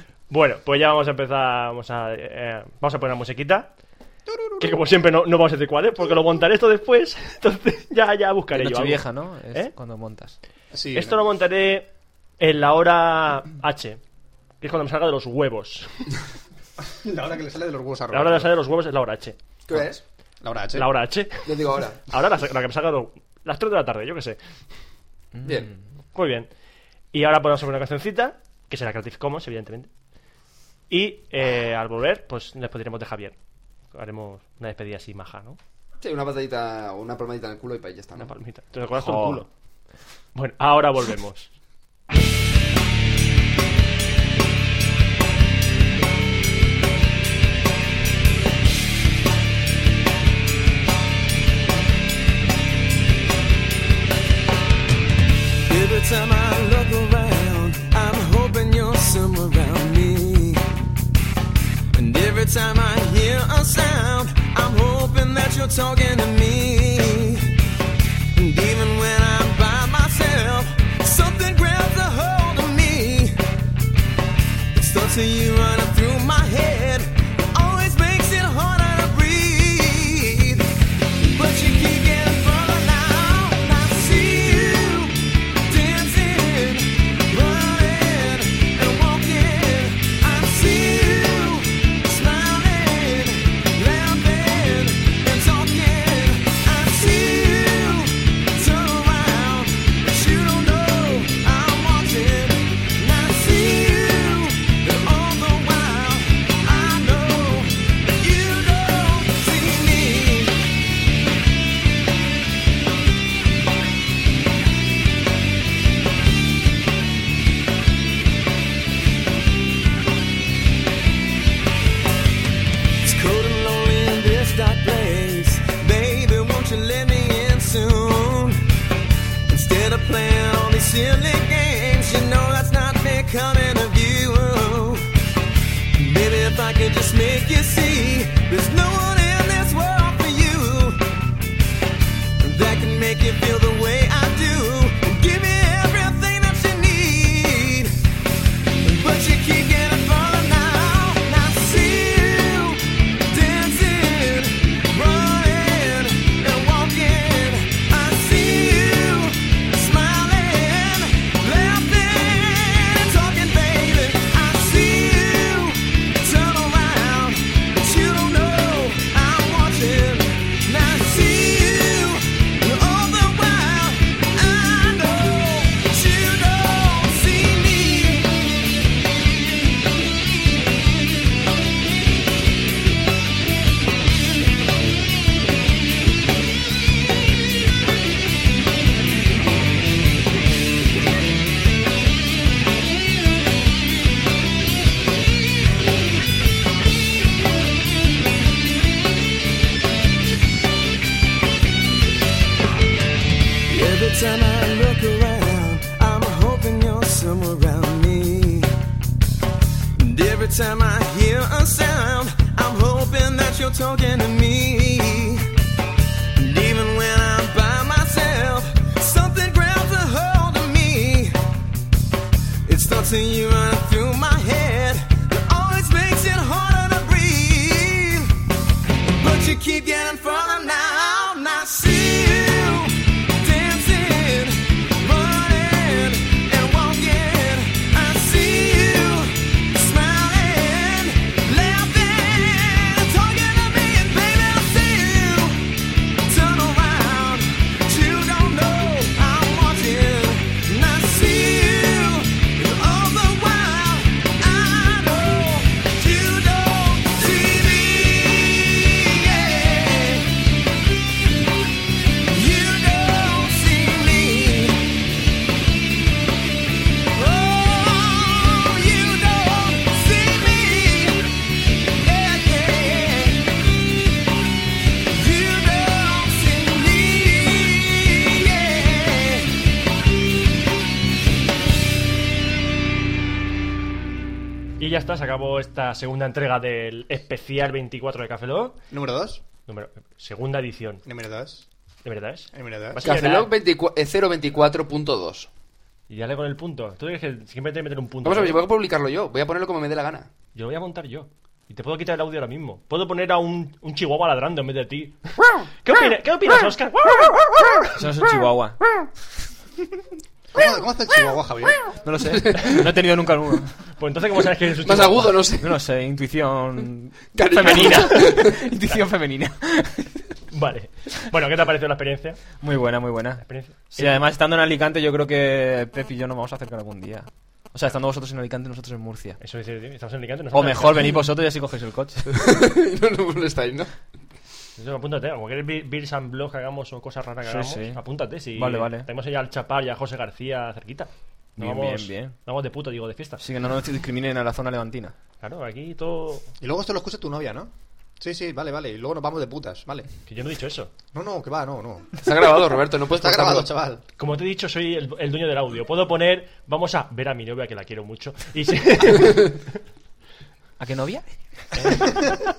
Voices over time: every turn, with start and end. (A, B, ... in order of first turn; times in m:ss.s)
0:00.3-0:03.7 A
0:04.3-0:04.7 B
0:04.6-0:09.7 A
0:08.5-0:10.3 C
0:10.7-0:11.2 B
0:11.0-0:14.0 A
0:14.6-0:16.1 A
0:17.0-0:18.5 B
0:18.1-0:19.4 A
0:19.7-0:20.0 D
0:20.4-0:20.9 B
0:20.8-0:21.5 A
0:21.4-0:22.0 D
0:22.0-0:24.4 A
0:25.4-0:25.7 C
0:25.4-0:25.7 D
0:26.2-0:26.5 A
0:27.1-0:29.9 A
0:30.9-0:33.4 A
0:33.9-0:35.6 A
0:36.0-0:38.3 D
0:38.2-0:39.5 A
0:39.0-0:39.4 C
0:40.4-0:41.5 A
0:55.7-1:00.6 E
1:01.9-1:07.5 E
1:08.4-1:13.4 E
1:14.7-1:20.6 E
1:21.2-1:50.6 E
2:03.0-2:08.6 E
2:09.5-2:15.1 E
2:16.0-2:21.0 E
2:22.4-2:27.9 E
2:28.8-2:58.4 E
3:23.7-3:28.7 E
3:30.0-3:35.4 E
3:36.4-3:41.4 E
3:42.6-3:48.3 E
3:49.2-4:05.6 E
4:06.2-4:20.3 E
4:22.3-4:24.8 E
4:27.1-4:31.2 E
4:32.0-4:33.5 E
4:35.1-4:39.5 E
4:44.8-4:48.8 A
4:48.9-4:49.4 B
4:49.7-4:51.0 A
4:51.1-4:51.6 B
4:52.0-4:53.5 A
4:52.5-4:53.0 B
4:53.0-4:55.5 D
4:56.1-4:58.6 A
4:58.2-5:00.3 D
5:00.6-5:07.9 A
5:08.0-5:08.8 C
5:10.5-5:11.9 B
5:12.0-5:13.8 C
5:14.0-5:15.4 A
5:14.8-5:15.8 D
5:15.6-5:20.2 C
5:17.4-5:18.7 D
5:20.5-5:22.4 A
5:22.6-5:29.4 C
5:23.4-5:24.2 A
5:29.4-5:31.1 A
5:30.5-5:32.5 C
5:32.3-5:33.9 D
5:34.8-5:43.4 A
5:37.4-5:39.1 C
5:41.6-5:42.3 C
5:43.4-5:45.1 C
5:45.4-5:46.5 A
5:46.6-5:50.1 B
5:50.3-5:50.9 A
5:51.1-5:54.0 B
5:52.2-5:53.7 D
5:54.2-5:59.6 A
6:00.8-6:02.0 C
6:01.7-6:02.3 A